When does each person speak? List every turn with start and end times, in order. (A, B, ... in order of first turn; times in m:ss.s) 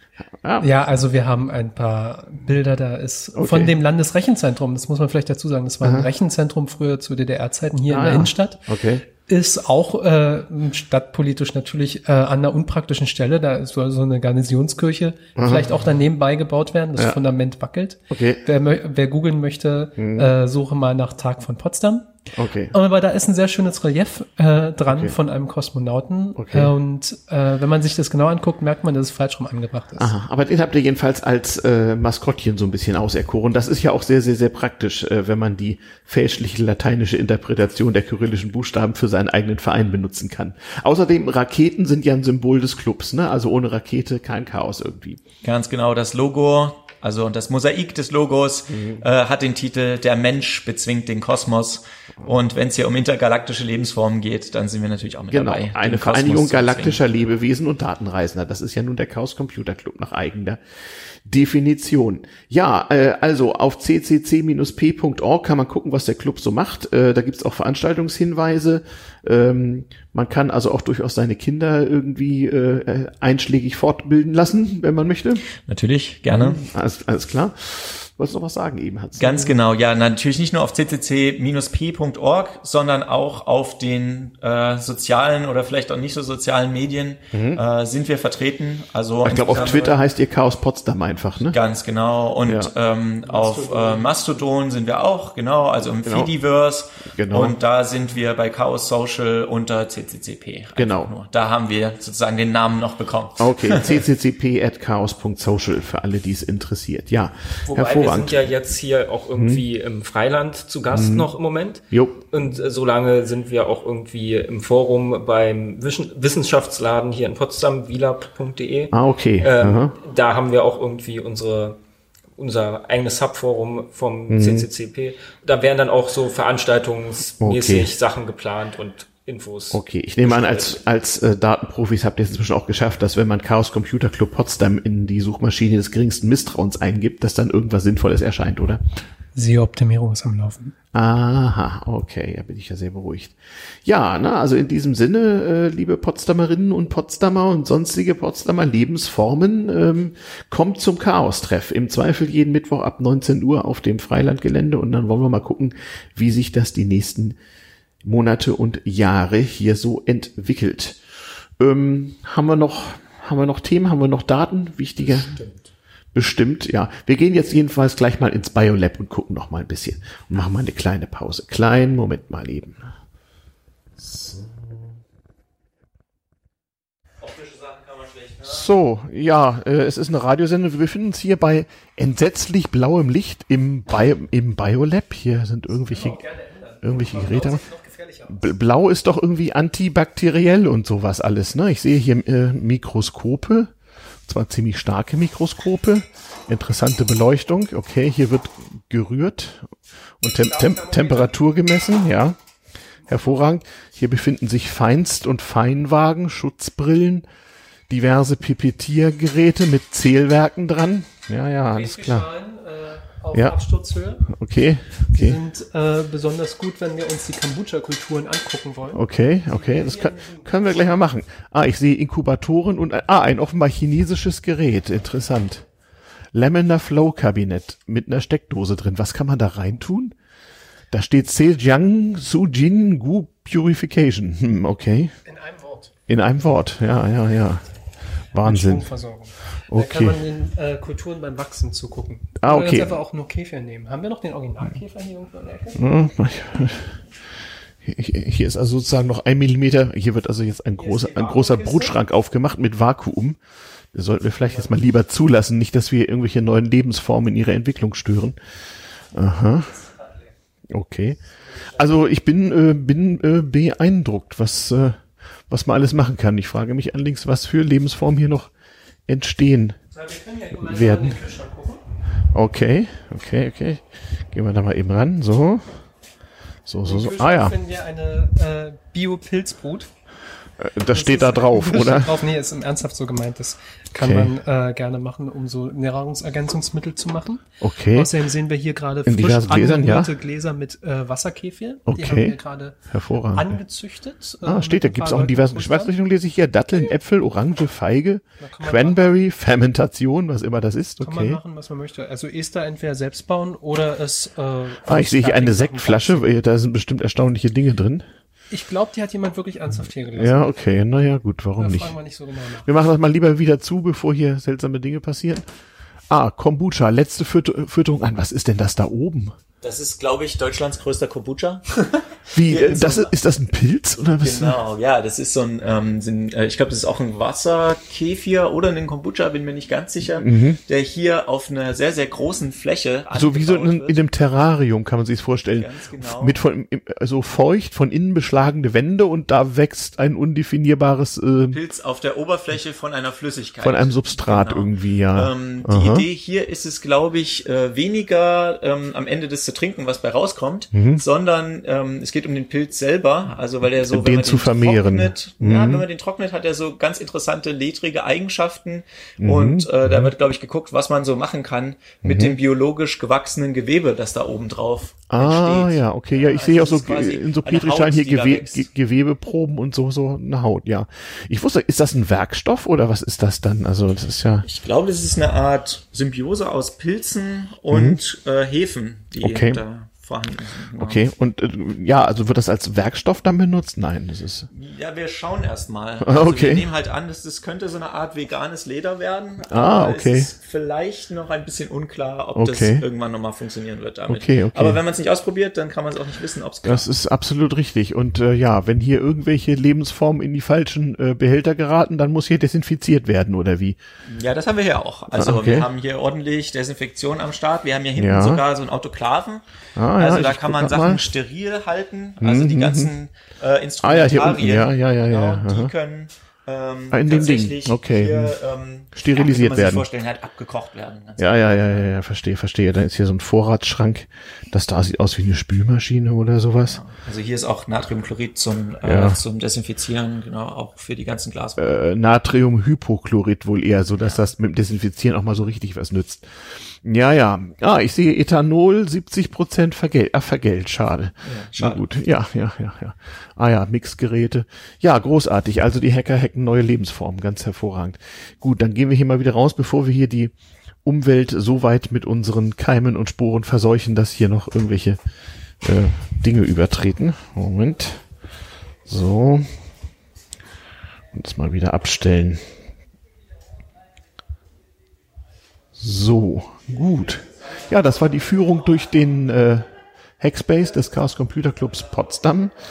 0:00.4-0:00.7 A
0:00.6-0:08.6 B
0:03.4-0:03.7 A
0:05.8-0:06.1 A
0:07.9-0:09.0 A
0:09.2-0:22.2 B
0:15.4-0:15.8 A
0:18.1-0:18.4 A
0:20.0-0:20.3 A
0:22.4-0:22.7 A
0:22.7-0:30.1 B
0:24.9-0:25.2 A
0:26.4-0:26.7 A
0:30.0-0:45.2 A
0:45.4-0:57.0 C
0:48.7-0:49.0 A
0:55.3-1:00.6 A
1:01.3-1:15.4 A
1:15.6-1:16.6 C
1:16.3-1:19.5 A
1:19.2-1:30.1 C
1:27.3-1:27.6 A
1:29.2-1:31.6 A
1:31.4-1:44.0 C
1:32.4-1:32.7 A
1:33.3-1:34.1 B
1:36.0-1:36.3 A
1:37.1-1:37.6 A
1:40.8-1:41.1 A
1:43.4-1:48.5 A
1:47.6-2:01.8 D
1:49.4-1:49.6 A
1:50.9-1:51.3 A
1:51.9-1:52.2 A
1:58.9-2:00.0 A
2:02.4-2:10.8 D
2:04.3-2:04.7 A
2:07.4-2:07.9 A
2:09.7-2:18.8 A
2:19.4-2:20.7 B
2:20.9-2:37.4 A
2:38.0-2:41.0 A
2:41.6-2:45.5 A
2:46.1-2:52.9 A
2:54.0-2:54.8 A
2:57.2-2:58.6 C
2:58.4-3:06.2 A
3:05.9-3:08.5 B
3:06.8-3:07.6 A
3:08.3-3:13.7 A
3:14.2-3:22.4 A
3:20.5-3:21.2 B
3:23.1-3:27.2 A
3:27.9-3:32.3 A
3:31.7-3:34.3 B
3:34.3-3:35.4 A
3:35.1-3:40.9 B
3:38.9-3:45.6 A
3:46.3-3:50.1 A
3:50.9-3:55.2 A
3:55.2-3:55.9 B
3:56.1-3:57.6 A
3:58.3-3:58.9 A
3:58.4-4:05.8 B
3:59.7-4:00.2 A
4:02.4-4:03.0 A
4:05.7-4:07.0 A
4:07.8-4:13.4 A
4:10.8-4:11.9 B
4:13.9-4:18.4 A
4:19.1-4:19.8 A
4:20.7-4:28.5 A
4:29.1-4:29.8 A
4:29.9-4:31.8 B
4:30.6-4:31.2 A
4:32.3-4:35.8 A
4:36.6-4:37.5 A
4:36.8-4:39.9 B
4:40.6-4:42.2 A
4:40.9-4:52.8 B
4:44.0-4:44.3 A
4:47.6-4:48.1 A
4:49.0-4:50.1 A
4:51.9-4:52.4 A
4:52.9-4:53.6 A
4:53.3-4:55.9 B
4:54.4-5:01.4 A
4:58.4-4:59.1 B
5:01.0-5:06.3 B
5:04.8-5:08.0 A
5:08.5-5:10.5 B
5:10.2-5:12.0 A
5:11.6-5:12.7 B
5:12.6-5:15.4 A
5:16.1-5:19.4 A
5:19.6-5:23.1 C
5:22.3-5:24.6 A
5:24.2-5:34.2 C
5:30.2-5:30.6 A
5:33.1-5:41.6 A
5:35.5-5:36.4 C
5:41.5-6:08.7 C
5:43.6-5:46.0 A
5:50.7-5:51.0 A
5:53.8-5:55.8 A
5:59.2-6:00.1 A
6:02.0-6:02.4 A
6:05.1-6:14.4 A
6:14.4-6:21.0 C
6:17.7-6:18.0 A
6:19.2-6:19.6 A
6:20.8-6:24.5 A
6:24.5-6:36.9 C
6:26.0-6:26.7 A
6:29.5-6:30.3 A
6:32.4-6:32.8 A
6:34.1-6:34.8 A
6:36.6-6:43.8 A
6:44.1-6:49.4 C
6:45.1-6:45.7 A
6:48.0-6:48.4 A
6:49.8-6:51.0 A
6:50.0-7:01.9 C
6:52.2-6:52.9 A
6:53.8-6:55.7 A
6:56.9-6:58.4 A
6:58.9-6:59.8 A
7:01.2-7:06.8 A
7:06.6-7:11.7 C
7:08.8-7:09.2 A
7:11.6-7:30.3 A
7:14.0-7:14.2 C
7:21.2-7:21.8 C
7:30.8-7:35.0 A
7:35.6-7:38.0 A
7:38.9-7:39.5 A
7:41.1-7:42.5 A
7:45.8-7:49.7 A
7:50.2-7:52.5 A